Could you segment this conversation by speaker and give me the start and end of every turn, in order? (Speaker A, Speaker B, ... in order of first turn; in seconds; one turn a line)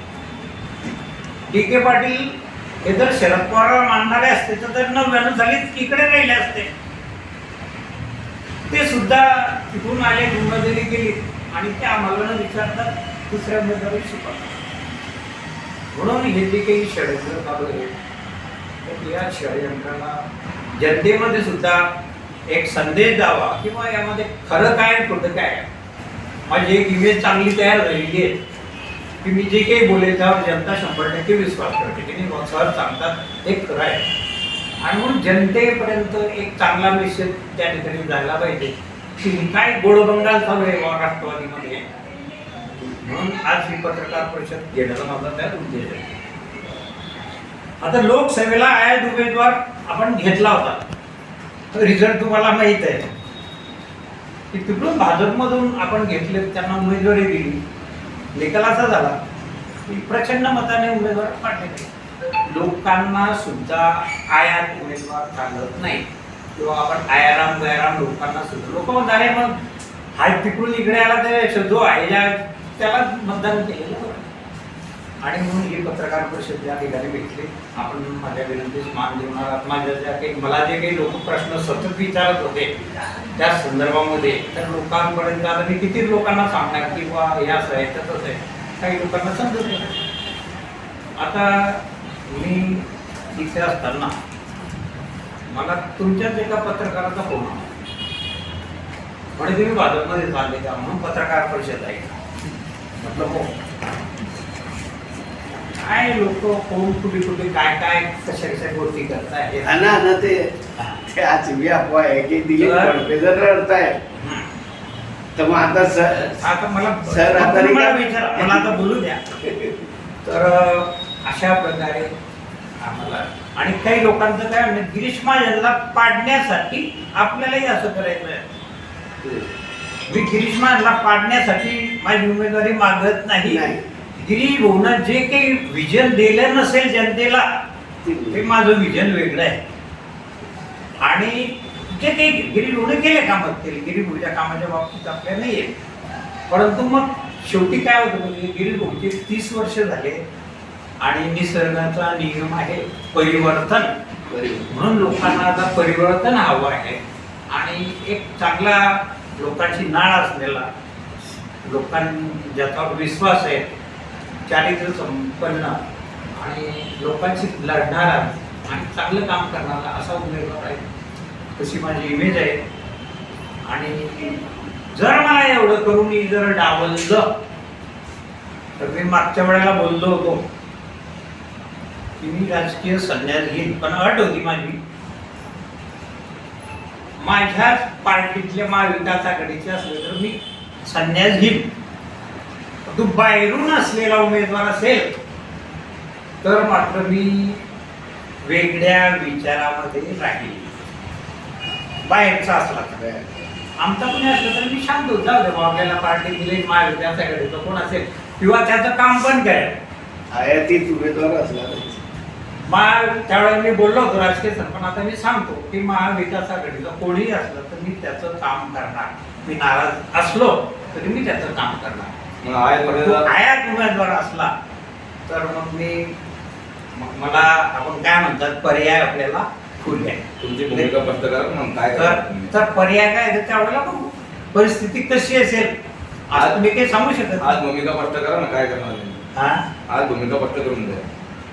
Speaker A: 1.5-2.3
Speaker A: 2.8-6.7
Speaker A: 8.7-14.6
Speaker A: 15.9-17.9
Speaker A: 18.8-20.2
Speaker A: 20.8-21.9
Speaker A: 22.5-25.7
Speaker A: 26.5-28.4
Speaker A: 29.2-34.1
Speaker A: 34.8-41.9
Speaker A: 42.8-46.1
Speaker A: 47.8-50.8
Speaker A: 51.7-53.1
Speaker A: 54.5-57.6
Speaker A: 58.4-59.2
Speaker A: 59.9-61.9
Speaker A: 62.5-66.0
Speaker A: 66.6-69.5
Speaker A: 70.2-74.3
Speaker A: 75.2-82.7
Speaker A: 83.4-89.9
Speaker A: 91.2-94.2
Speaker A: 95.5-97.7
Speaker A: 99.4-102.2
Speaker A: 103.0-103.5
Speaker A: 105.8-110.0
Speaker B: 109.6-110.5
Speaker B: 111.1-114.0
Speaker A: 112.6-113.0
Speaker A: 114.2-114.5
Speaker B: 115.4-116.4
Speaker A: 116.4-119.2
Speaker B: 117.1-118.8
Speaker B: 119.4-119.9
Speaker A: 120.2-122.1
Speaker A: 122.8-128.4
Speaker B: 129.2-129.5
Speaker A: 130.1-133.6
Speaker B: 133.4-133.8
Speaker A: 134.2-137.5
Speaker B: 138.0-138.4
Speaker A: 138.3-139.6
Speaker A: 141.0-145.7
Speaker A: 146.5-150.2
Speaker A: 151.0-153.9
Speaker B: 154.3-154.7
Speaker A: 154.7-157.0
Speaker A: 157.5-160.7
Speaker A: 161.7-163.7
Speaker A: 164.5-165.8
Speaker A: 166.4-170.8
Speaker A: 171.6-172.6
Speaker A: 173.7-174.4
Speaker A: 174.9-177.2
Speaker A: 178.8-180.4
Speaker A: 182.2-184.8
Speaker A: 187.2-191.7
Speaker A: 192.9-195.1
Speaker A: 196.4-197.6
Speaker A: 198.4-200.8
Speaker A: 202.0-203.0
Speaker B: 203.0-203.3
Speaker A: 203.8-209.8
Speaker B: 210.3-212.0
Speaker A: 212.7-222.1
Speaker C: 222.4-223.2
Speaker A: 222.8-224.5
Speaker A: 225.3-226.1
Speaker A: 226.9-230.9
Speaker C: 230.4-232.5
Speaker A: 231.9-235.7
Speaker A: 236.3-237.6
Speaker C: 237.5-239.2
Speaker A: 239.3-239.7
Speaker C: 239.9-241.0